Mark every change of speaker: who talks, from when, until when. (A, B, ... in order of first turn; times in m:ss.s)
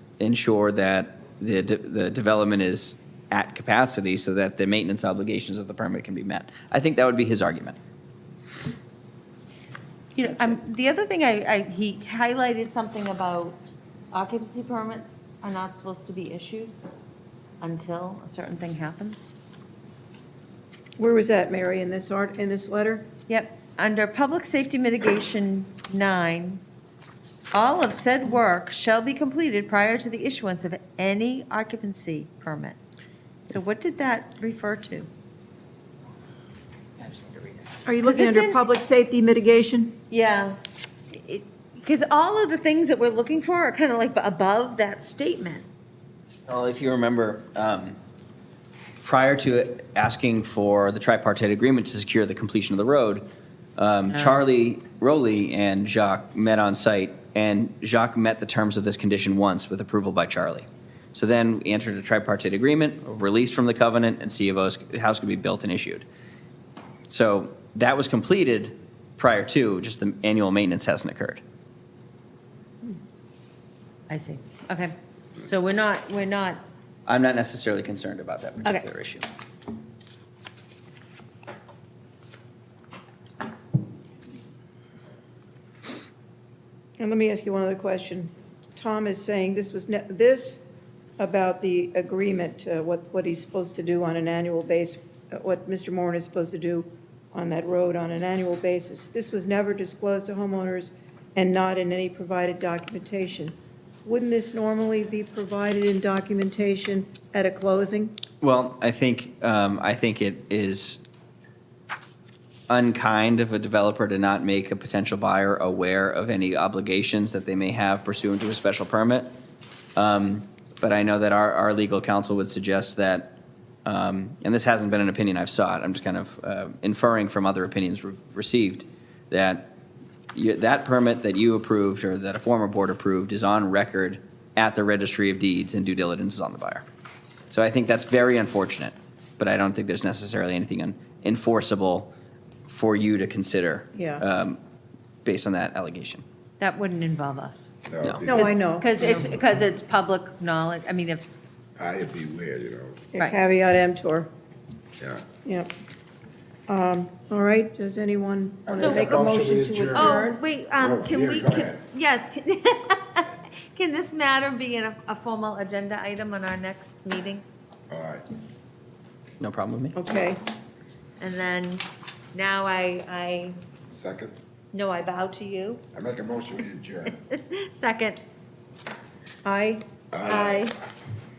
0:00.2-0:07.8 A
0:10.2-0:13.6 B
0:14.1-0:16.7 B
0:17.6-0:19.3 B
0:21.0-0:23.0 C
0:23.3-0:26.6 B
0:27.5-0:32.8 B
0:33.4-0:35.1 B
0:37.0-0:37.6 A
0:37.8-0:40.0 C
0:38.0-0:38.6 B
0:40.1-0:40.6 B
0:41.1-0:45.7 B
0:46.4-0:48.0 A
0:49.0-0:53.2 A
0:53.8-1:06.1 A
1:07.1-1:11.4 A
1:14.1-1:16.6 B
1:17.1-1:19.2 A
1:27.0-1:30.6 C
1:31.2-1:48.1 C
1:48.4-1:51.0 A
1:52.7-1:59.3 A
2:00.0-2:09.7 A
2:10.3-2:16.9 A
2:17.5-2:22.1 A
2:22.7-2:24.6 A
2:23.9-2:24.2 C
2:25.2-2:26.2 A
2:26.6-2:27.7 B
2:27.9-2:28.4 D
2:28.2-2:29.3 C
2:28.3-2:31.2 B
2:31.8-2:33.1 D
2:33.1-2:34.3 C
2:35.0-2:35.2 D
2:35.4-2:35.7 C
2:36.7-2:40.4 C
2:38.7-2:41.8 D
2:38.8-2:39.1 B
2:39.9-2:47.4 B
2:47.9-2:48.2 D
2:49.4-2:50.0 A
2:49.9-2:50.4 C
2:51.2-2:53.6 B
2:53.9-2:54.3 D
2:54.7-2:55.8 B
2:55.9-2:57.2 D
2:57.2-2:58.2 B
2:59.4-2:59.8 C
3:00.1-3:00.7 D
3:00.2-3:00.8 B